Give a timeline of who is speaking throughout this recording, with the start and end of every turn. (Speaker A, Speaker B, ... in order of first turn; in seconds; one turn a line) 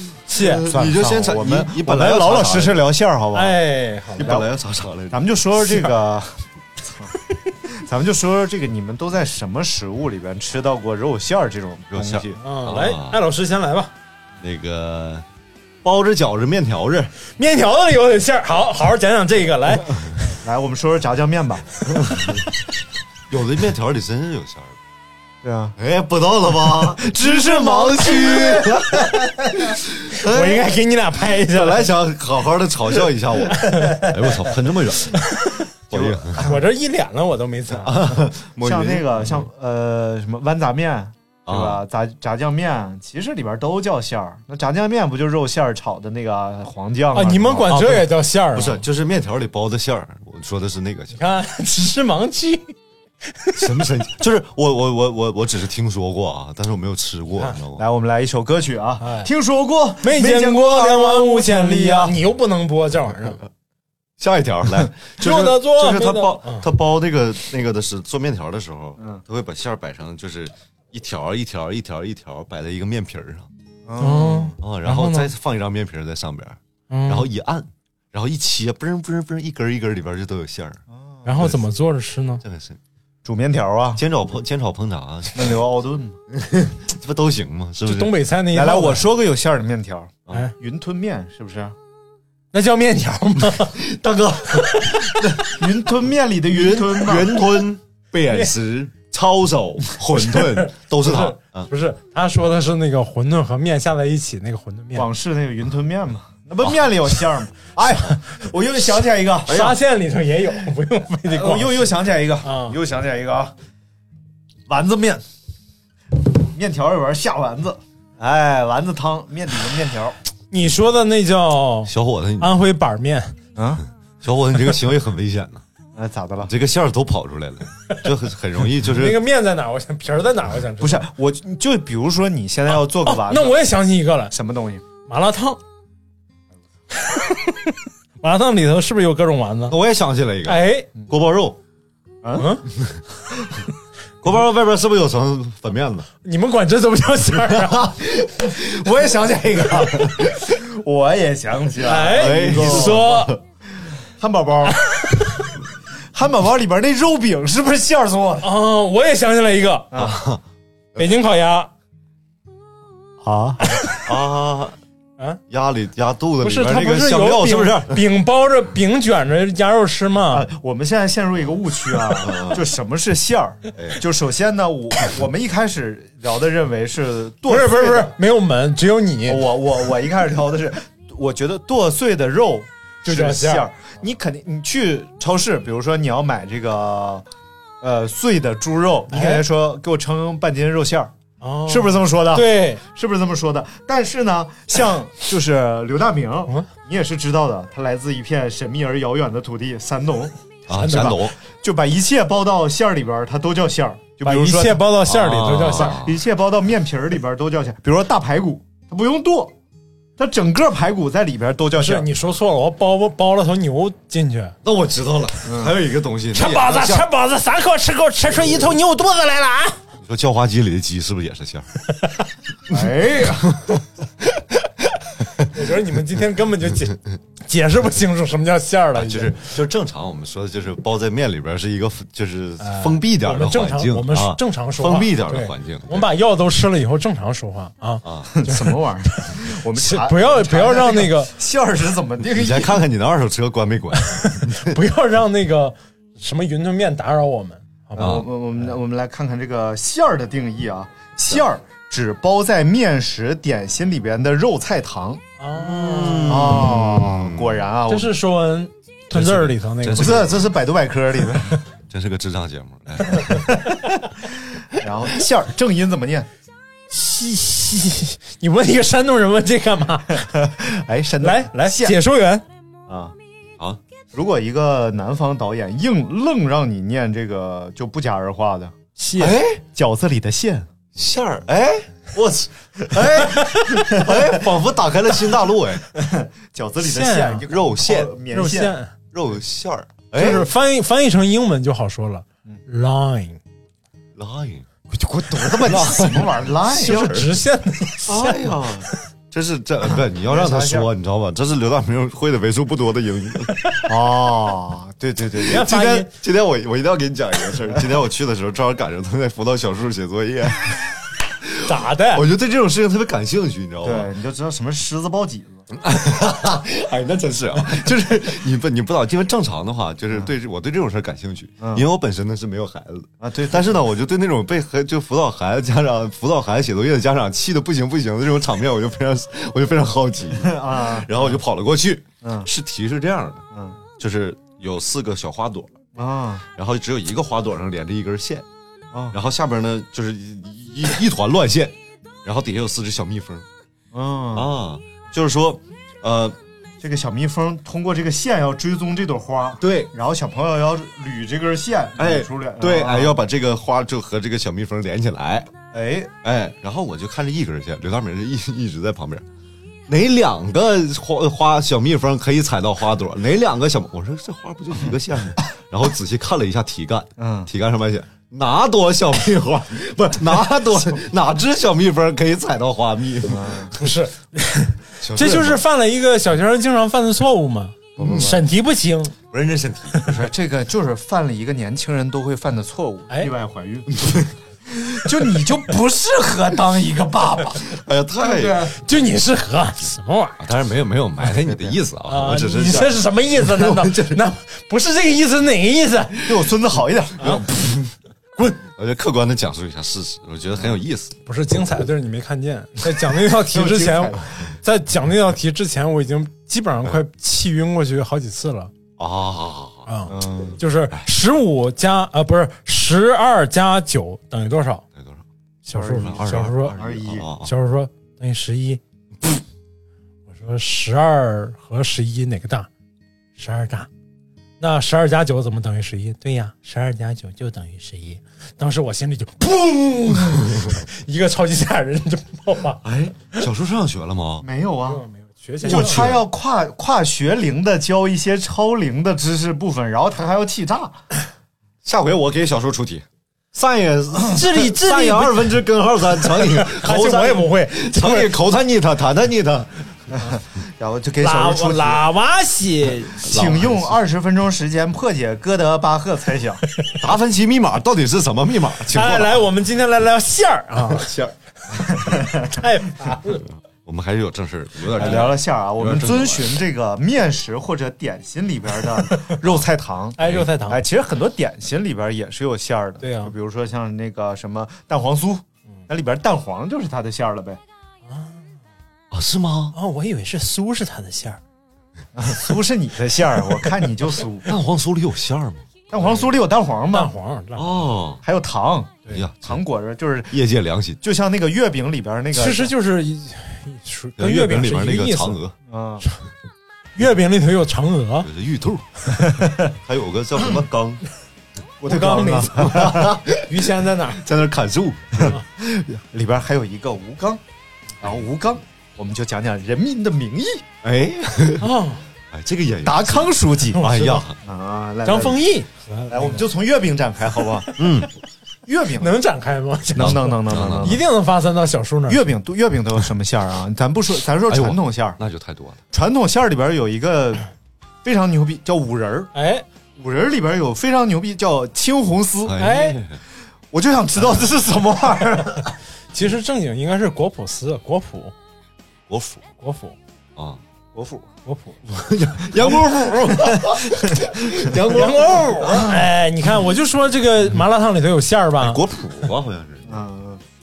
Speaker A: 0.3-0.9
Speaker B: 0.3-2.9
Speaker C: 0.8-3.6
Speaker A: 3.4-4.4
Speaker B: 4.2-5.2
Speaker C: 4.2-4.5
Speaker C: 5.1-7.1
Speaker C: 7.7-12.4
Speaker B: 11.9-13.2
Speaker A: 12.4-13.9
Speaker B: 14.4-15.2
Speaker B: 15.8-17.1
Speaker A: 17.4-20.1
Speaker C: 20.4-21.8
Speaker B: 22.0-22.4
Speaker B: 23.3-24.8
Speaker C: 25.4-25.8
Speaker B: 25.8-29.8
Speaker C: 26.8-29.7
Speaker A: 30.2-31.9
Speaker B: 31.5-35.2
Speaker A: 33.6-34.1
Speaker A: 35.3-35.6
Speaker B: 35.9-36.5
Speaker C: 35.9-36.6
Speaker A: 36.4-38.0
Speaker B: 37.8-39.5
Speaker C: 38.6-48.1
Speaker B: 41.5-41.8
Speaker A: 47.1-48.9
Speaker B: 48.5-51.2
Speaker A: 51.1-52.7
Speaker B: 53.6-57.8
Speaker C: 57.8-62.2
Speaker A: 59.0-59.3
Speaker A: 60.0-63.4
Speaker B: 64.2-73.5
Speaker A: 65.2-66.7
Speaker C: 73.9-74.6
Speaker A: 74.0-75.3
Speaker B: 74.6-80.8
Speaker A: 76.9-77.3
Speaker C: 80.9-81.4
Speaker A: 81.2-82.4
Speaker B: 82.4-82.8
Speaker C: 83.2-84.0
Speaker B: 84.0-85.6
Speaker C: 85.3-86.2
Speaker B: 86.3-88.1
Speaker A: 87.8-89.0
Speaker C: 88.5-91.8
Speaker A: 92.5-93.8
Speaker B: 93.7-95.5
Speaker A: 94.6-95.1
Speaker C: 95.4-97.5
Speaker B: 96.5-101.7
Speaker A: 100.2-105.1
Speaker C: 105.0-109.7
Speaker A: 109.5-112.8
Speaker B: 109.5-109.8
Speaker C: 111.2-113.5
Speaker C: 114.7-115.2
Speaker C: 116.4-120.2
Speaker A: 120.5-123.3
Speaker B: 121.9-122.5
Speaker C: 123.6-123.8
Speaker B: 124.2-125.6
Speaker C: 126.0-126.5
Speaker B: 126.5-129.2
Speaker A: 128.8-131.1
Speaker C: 130.8-133.7
Speaker A: 132.7-134.3
Speaker C: 134.3-134.8
Speaker A: 135.1-135.6
Speaker A: 137.0-139.8
Speaker B: 139.7-141.6
Speaker A: 140.4-140.9
Speaker C: 142.2-142.6
Speaker A: 142.4-142.6
Speaker B: 144.2-146.1
Speaker A: 146.2-147.9
Speaker C: 148.1-153.0
Speaker A: 151.8-153.4
Speaker B: 152.0-153.4
Speaker C: 154.2-154.8
Speaker C: 156.1-158.5
Speaker A: 158.4-159.9
Speaker B: 159.9-160.4
Speaker A: 161.0-161.7
Speaker C: 163.2-164.1
Speaker B: 164.1-164.8
Speaker B: 165.5-168.0
Speaker A: 166.4-170.5
Speaker C: 170.3-178.2
Speaker B: 172.3-172.6
Speaker A: 177.5-179.4
Speaker C: 179.3-187.2
Speaker A: 183.0-183.7
Speaker C: 187.8-191.1
Speaker A: 189.1-189.4
Speaker A: 191.4-192.8
Speaker C: 191.7-200.3
Speaker B: 200.7-201.3
Speaker A: 200.7-201.2
Speaker C: 201.6-204.9
Speaker A: 204.2-206.0
Speaker B: 205.0-206.2
Speaker C: 205.7-209.5
Speaker C: 210.2-212.1
Speaker A: 211.8-214.6
Speaker B: 214.6-217.1
Speaker C: 215.4-215.8
Speaker A: 216.3-219.8
Speaker B: 220.0-221.7
Speaker C: 222.7-223.7
Speaker B: 222.7-223.8
Speaker A: 225.4-229.4
Speaker B: 228.9-236.1
Speaker A: 232.6-241.3
Speaker B: 238.0-238.3
Speaker C: 238.3-242.8
Speaker B: 242.2-244.8
Speaker A: 243.9-248.3
Speaker C: 247.9-255.2
Speaker B: 248.0-248.3
Speaker A: 255.4-256.7
Speaker B: 255.5-257.6
Speaker C: 256.3-258.2
Speaker A: 257.9-260.3
Speaker B: 259.1-260.5
Speaker C: 260.0-261.6
Speaker B: 261.9-263.5
Speaker C: 263.5-263.8
Speaker C: 264.6-266.3
Speaker A: 266.9-270.3
Speaker C: 270.2-271.9
Speaker A: 271.2-272.4
Speaker C: 272.9-273.1
Speaker C: 274.1-278.7
Speaker A: 279.0-279.4
Speaker B: 279.2-279.6
Speaker C: 279.7-280.7
Speaker B: 280.9-285.8
Speaker A: 283.4-283.6
Speaker C: 284.0-284.4
Speaker C: 286.0-288.7
Speaker A: 286.8-287.4
Speaker B: 287.5-288.1
Speaker A: 288.3-288.9
Speaker B: 289.1-290.4
Speaker A: 290.1-293.4
Speaker C: 290.2-290.4
Speaker B: 294.2-294.7
Speaker C: 295.0-297.3
Speaker B: 295.3-297.3
Speaker A: 296.8-298.5
Speaker B: 298.1-303.6
Speaker C: 300.2-300.9
Speaker C: 303.9-305.7
Speaker A: 305.4-306.1
Speaker B: 305.5-314.1
Speaker A: 311.6-312.3
Speaker C: 313.8-315.7
Speaker B: 315.7-333.4
Speaker C: 321.6-321.9
Speaker C: 323.2-323.8
Speaker C: 330.4-331.4
Speaker C: 332.2-332.5
Speaker C: 333.5-333.8
Speaker B: 334.0-335.7
Speaker C: 336.0-336.4
Speaker B: 336.6-338.5
Speaker C: 338.9-339.2
Speaker B: 339.1-343.5
Speaker C: 343.9-344.6
Speaker B: 344.3-346.4
Speaker C: 346.8-353.2
Speaker B: 349.6-349.9
Speaker B: 352.0-355.5
Speaker C: 355.7-356.1
Speaker B: 356.2-359.2
Speaker B: 359.9-373.7
Speaker C: 367.2-367.5
Speaker C: 373.3-373.7
Speaker A: 373.8-379.1
Speaker B: 375.0-375.6
Speaker C: 378.0-378.4
Speaker B: 378.0-378.4
Speaker B: 379.3-380.0
Speaker C: 380.1-388.7
Speaker B: 384.0-384.3
Speaker B: 387.7-388.7
Speaker A: 388.6-390.4
Speaker B: 390.4-394.2
Speaker C: 391.4-391.8
Speaker A: 392.1-396.2
Speaker C: 396.2-397.8
Speaker B: 398.7-401.2
Speaker A: 401.3-408.7
Speaker C: 403.5-404.5
Speaker B: 409.0-409.9
Speaker A: 409.9-414.8
Speaker C: 410.1-410.6
Speaker B: 414.9-415.2
Speaker A: 415.6-416.8
Speaker C: 415.7-417.3
Speaker B: 415.9-417.5
Speaker A: 417.4-418.8
Speaker A: 420.3-422.7
Speaker A: 423.4-423.9
Speaker A: 424.6-432.8
Speaker B: 432.8-434.5
Speaker C: 434.4-435.0
Speaker A: 434.9-436.1
Speaker B: 435.6-436.3
Speaker C: 435.6-441.0
Speaker B: 441.8-449.7
Speaker A: 444.3-445.6
Speaker A: 446.3-448.3
Speaker C: 450.1-452.0
Speaker A: 451.2-453.3
Speaker B: 453.2-454.0
Speaker C: 453.2-456.6
Speaker B: 457.0-459.4
Speaker A: 458.9-461.1
Speaker B: 460.9-461.3
Speaker C: 462.0-462.5
Speaker A: 462.5-463.4
Speaker B: 463.8-466.6
Speaker C: 464.9-477.6
Speaker A: 470.2-470.8
Speaker B: 470.2-470.5
Speaker A: 473.0-473.3
Speaker A: 478.1-478.5
Speaker B: 479.1-479.8
Speaker A: 479.7-481.4
Speaker C: 482.1-484.5
Speaker B: 484.5-485.7
Speaker C: 485.9-487.1
Speaker A: 486.9-487.9
Speaker B: 487.6-488.2
Speaker C: 488.2-490.4
Speaker B: 489.1-489.6
Speaker B: 490.3-491.0
Speaker C: 491.0-492.7
Speaker A: 492.3-495.4
Speaker B: 494.2-495.6
Speaker C: 495.7-496.1
Speaker A: 497.0-498.3
Speaker B: 498.2-498.9
Speaker C: 499.2-499.7
Speaker B: 499.7-501.0
Speaker C: 501.8-503.2
Speaker A: 501.9-502.9
Speaker B: 502.6-503.6
Speaker A: 503.4-504.2
Speaker B: 504.1-505.4
Speaker C: 505.3-507.4
Speaker C: 508.0-510.7
Speaker B: 510.8-511.7
Speaker A: 511.6-512.0
Speaker B: 512.3-514.3
Speaker C: 512.8-515.4
Speaker A: 513.7-514.2
Speaker A: 515.0-516.5
Speaker C: 516.1-517.8
Speaker B: 517.8-518.1
Speaker C: 518.7-519.2
Speaker A: 519.0-522.2
Speaker C: 520.0-521.0
Speaker B: 520.0-521.0
Speaker C: 522.1-525.2
Speaker B: 524.5-525.8
Speaker C: 525.9-527.5
Speaker C: 528.0-529.3
Speaker A: 529.3-529.6
Speaker C: 530.0-532.6
Speaker B: 532.5-533.2
Speaker A: 532.6-533.0
Speaker C: 533.7-535.7
Speaker A: 536.1-538.3
Speaker B: 539.1-539.5
Speaker A: 539.6-540.0
Speaker B: 540.4-540.6
Speaker C: 540.9-541.3
Speaker A: 541.5-541.8
Speaker B: 541.9-545.9
Speaker A: 544.9-548.8
Speaker B: 548.6-550.0
Speaker C: 549.9-550.4